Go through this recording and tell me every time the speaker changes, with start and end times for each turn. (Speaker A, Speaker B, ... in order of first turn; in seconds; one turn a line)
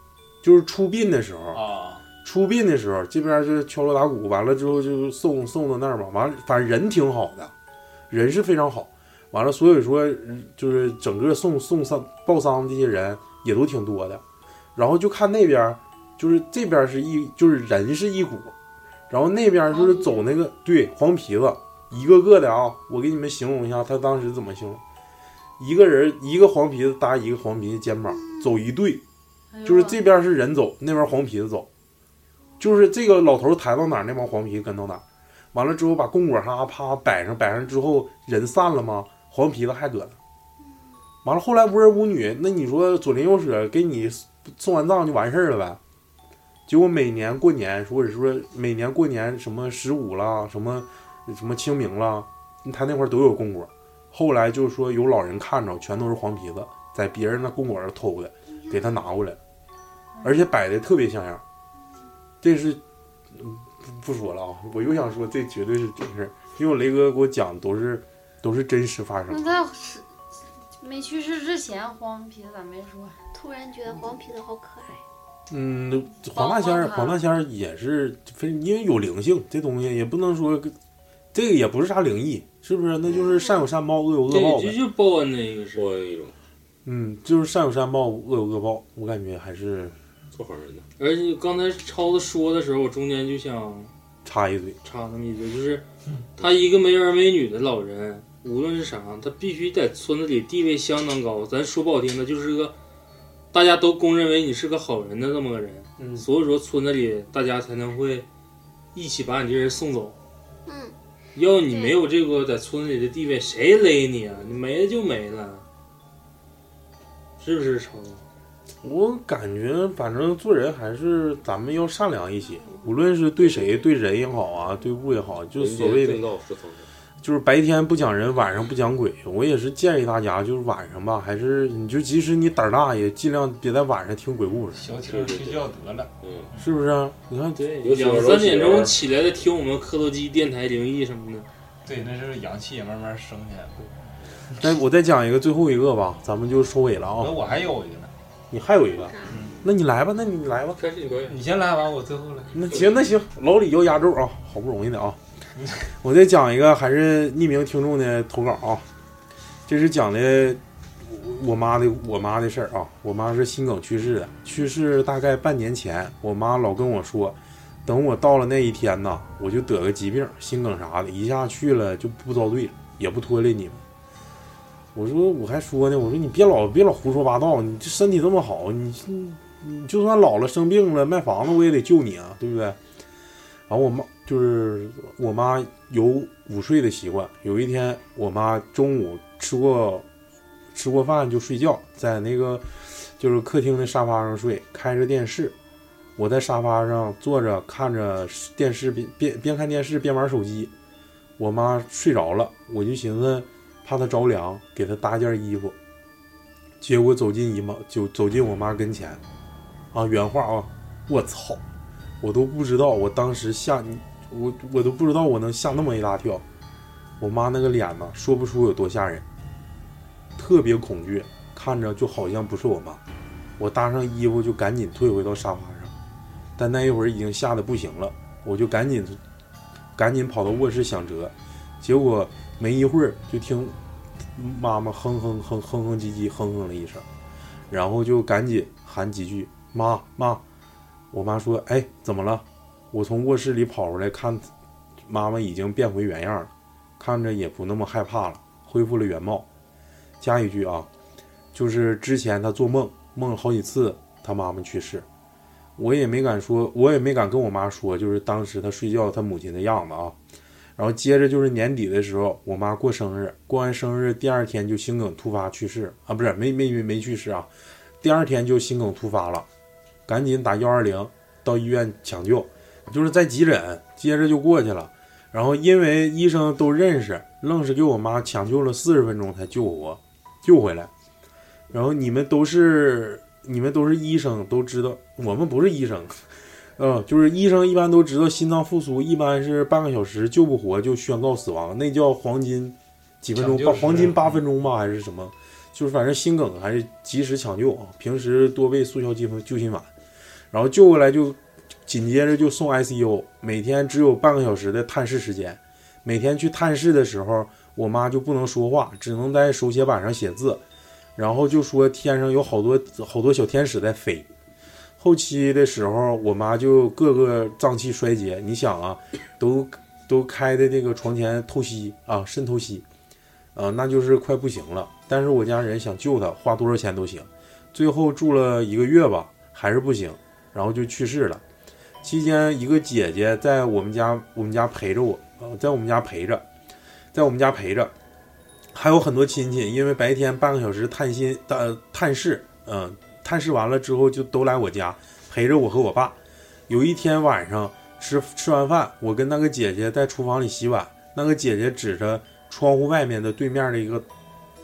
Speaker A: 0.4-1.6
Speaker B: 1.5-2.0
Speaker A: 2.2-7.5
Speaker A: 8.1-14.2
Speaker A: 14.8-18.5
Speaker A: 19.1-24.8
Speaker C: 19.7-20.3
Speaker A: 25.6-29.0
Speaker D: 28.1-28.5
Speaker C: 29.5-30.0
Speaker A: 29.6-31.7
Speaker A: 32.6-40.2
Speaker A: 41.2-45.8
Speaker A: 46.7-59.4
Speaker A: 60.2-61.4
Speaker A: 62.4-62.8
Speaker A: 63.3-69.5
Speaker C: 69.3-70.1
Speaker C: 70.8-73.2
Speaker D: 73.3-75.0
Speaker A: 75.5-80.8
Speaker C: 76.3-77.2
Speaker A: 81.3-84.8
Speaker D: 83.2-83.6
Speaker E: 84.3-85.9
Speaker F: 85.7-86.3
Speaker A: 86.8-90.0
Speaker F: 90.3-90.9
Speaker E: 91.0-93.9
Speaker A: 94.2-94.8
Speaker E: 94.8-95.8
Speaker E: 96.4-102.7
Speaker E: 103.5-108.3
Speaker A: 106.0-106.3
Speaker E: 108.9-110.2
Speaker D: 110.7-111.0
Speaker E: 111.3-115.7
Speaker D: 111.6-112.0
Speaker E: 117.4-118.2
Speaker A: 118.8-126.2
Speaker F: 123.4-123.7
Speaker F: 125.6-126.9
Speaker A: 127.2-134.9
Speaker B: 134.7-136.7
Speaker F: 135.0-135.7
Speaker F: 136.2-136.5
Speaker A: 136.6-137.7
Speaker E: 137.6-141.5
Speaker F: 137.8-139.0
Speaker B: 141.9-143.8
Speaker A: 144.6-147.4
Speaker B: 147.2-148.1
Speaker A: 148.5-150.8
Speaker B: 149.3-149.5
Speaker F: 150.8-151.4
Speaker B: 151.3-152.7
Speaker A: 152.5-155.2
Speaker A: 155.8-158.9
Speaker A: 159.7-173.8
Speaker A: 174.9-182.8
Speaker A: 183.7-190.1
Speaker A: 190.7-195.6
Speaker A: 196.2-200.7
Speaker A: 201.4-205.8
Speaker A: 206.8-209.2
Speaker A: 209.9-211.6
Speaker A: 212.2-216.4
Speaker A: 217.2-219.2
Speaker A: 220.4-223.0
Speaker A: 223.6-225.9
Speaker A: 226.6-229.2
Speaker A: 230.0-233.8
Speaker A: 234.3-237.1
Speaker A: 237.7-240.4
Speaker A: 241.1-244.5
Speaker A: 245.0-249.5
Speaker A: 250.2-250.9
Speaker A: 251.5-255.1
Speaker A: 255.8-260.2
Speaker A: 260.8-267.5
Speaker A: 268.0-269.5
Speaker A: 270.1-280.9
Speaker A: 281.7-286.2
Speaker A: 286.8-299.9
Speaker B: 293.4-294.4
Speaker A: 300.5-310.6
Speaker A: 311.2-314.3
Speaker A: 315.0-322.9
Speaker A: 323.6-331.4
Speaker A: 332.0-336.4
Speaker A: 337.1-337.9
Speaker A: 338.7-346.2
Speaker A: 346.7-354.1